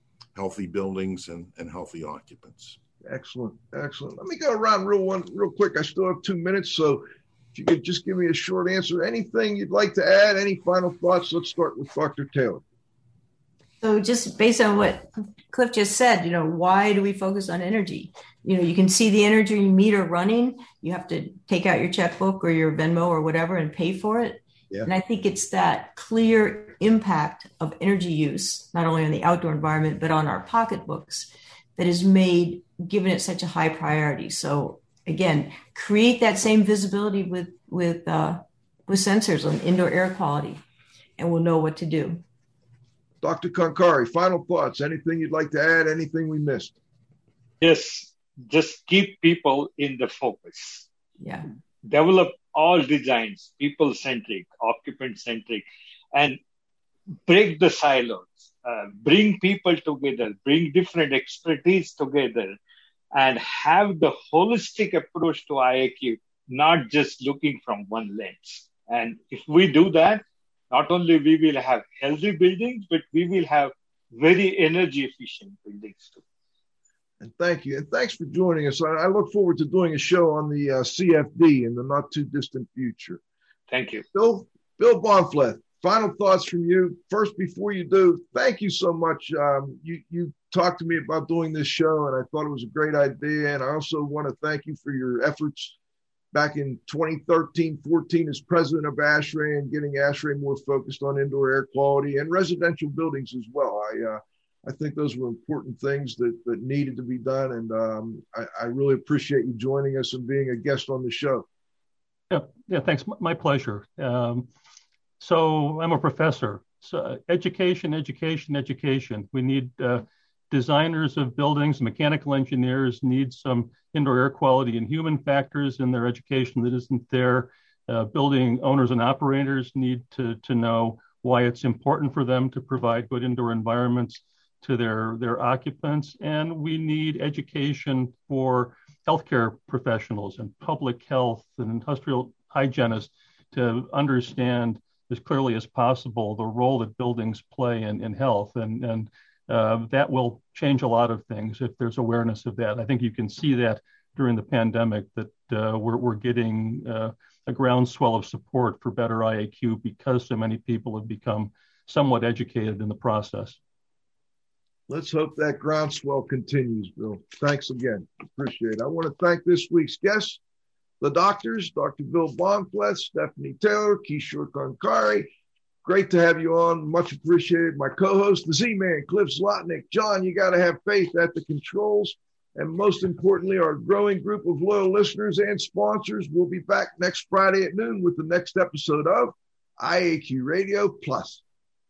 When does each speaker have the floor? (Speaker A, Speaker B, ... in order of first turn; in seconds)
Speaker A: 0.3-2.8
Speaker B: 3.0-12.6, 43.2-46.8, 77.2-83.2, 84.1-95.8, 96.3-111.5, 164.9-170.4, 171.0-175.3, 175.8-191.4
Speaker C: 13.8-40.6, 41.2-42.2, 51.2-51.5
Speaker D: 47.6-50.9, 51.8-56.4, 57.2-62.6, 63.1-76.2, 83.7-84.0
Speaker E: 112.3-114.5, 115.2-163.6